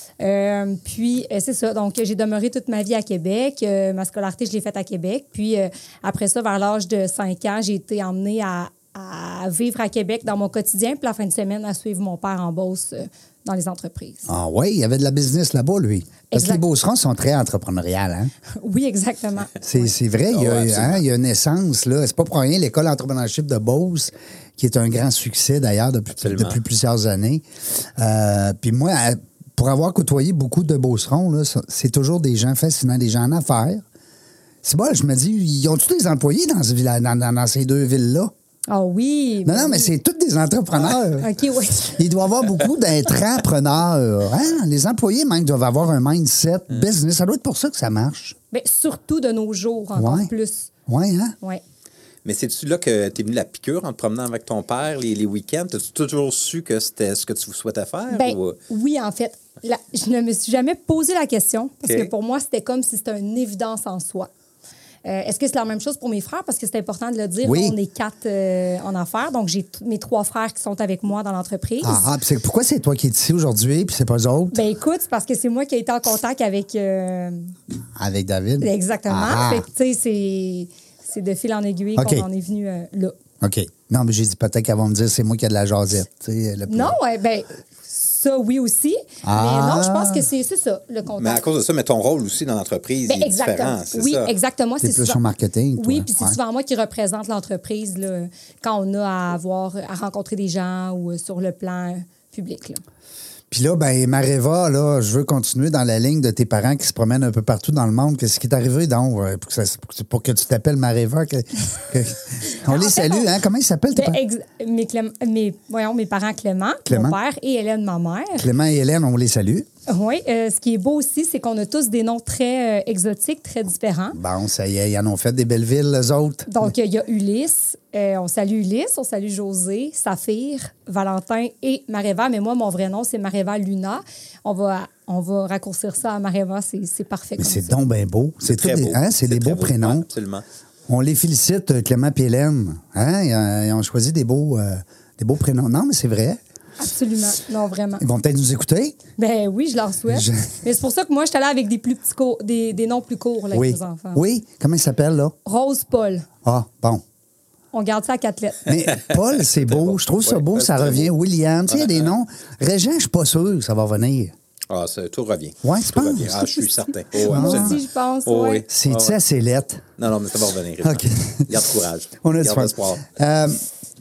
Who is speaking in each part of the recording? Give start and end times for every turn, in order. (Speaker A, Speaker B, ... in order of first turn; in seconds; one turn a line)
Speaker A: 0.2-14.3
Speaker B: 14.3-18.3
Speaker A: 16.3-16.6
Speaker A: 18.5-19.9
Speaker B: 19.6-27.4
Speaker C: 20.3-21.0
Speaker C: 26.2-26.6
Speaker B: 28.0-33.8
Speaker B: 34.6-38.3
Speaker A: 38.7-39.9
Speaker B: 39.4-41.3
Speaker A: 41.2-42.0
Speaker B: 41.8-48.4
Speaker A: 48.5-50.7
Speaker B: 49.9-50.3
Speaker B: 50.9-51.3
Speaker C: 52.2-58.6
Speaker A: 58.1-64.3
Speaker C: 61.8-62.1
Speaker A: 65.0-72.0
Speaker B: 67.4-67.7
Speaker B: 71.8-74.6
Speaker A: 74.5-77.5
Speaker B: 78.0-79.7
Speaker A: 78.6-83.2
Speaker B: 82.0-82.2
Speaker B: 83.4-86.9
Speaker A: 86.7-91.4
Speaker B: 89.2-90.2
Speaker C: 91.2-94.3
Speaker A: 93.1-95.2
Speaker B: 94.8-96.4
Speaker A: 95.8-102.8
Speaker B: 103.5-114.2
Speaker A: 112.6-113.3
Speaker A: 113.9-118.4
Speaker B: 116.8-117.2
Speaker B: 118.3-119.7
Speaker A: 119.9-124.2
Speaker B: 124.1-126.7
Speaker A: 126.5-137.8
Speaker B: 137.4-140.1
Speaker C: 138.4-140.4
Speaker B: 140.9-146.4
Speaker A: 146.8-148.0
Speaker B: 148.0-149.0
Speaker A: 149.2-154.2
Speaker B: 150.1-150.4
Speaker B: 153.5-155.3
Speaker A: 155.4-156.3
Speaker B: 156.4-157.0
Speaker A: 157.7-158.7
Speaker B: 158.7-164.3
Speaker C: 159.6-161.1
Speaker C: 164.7-169.2
Speaker B: 165.6-166.5
Speaker B: 167.2-167.8
Speaker A: 167.2-168.6
Speaker B: 168.7-169.8
Speaker C: 170.0-173.1
Speaker B: 170.8-171.4
Speaker B: 172.2-173.6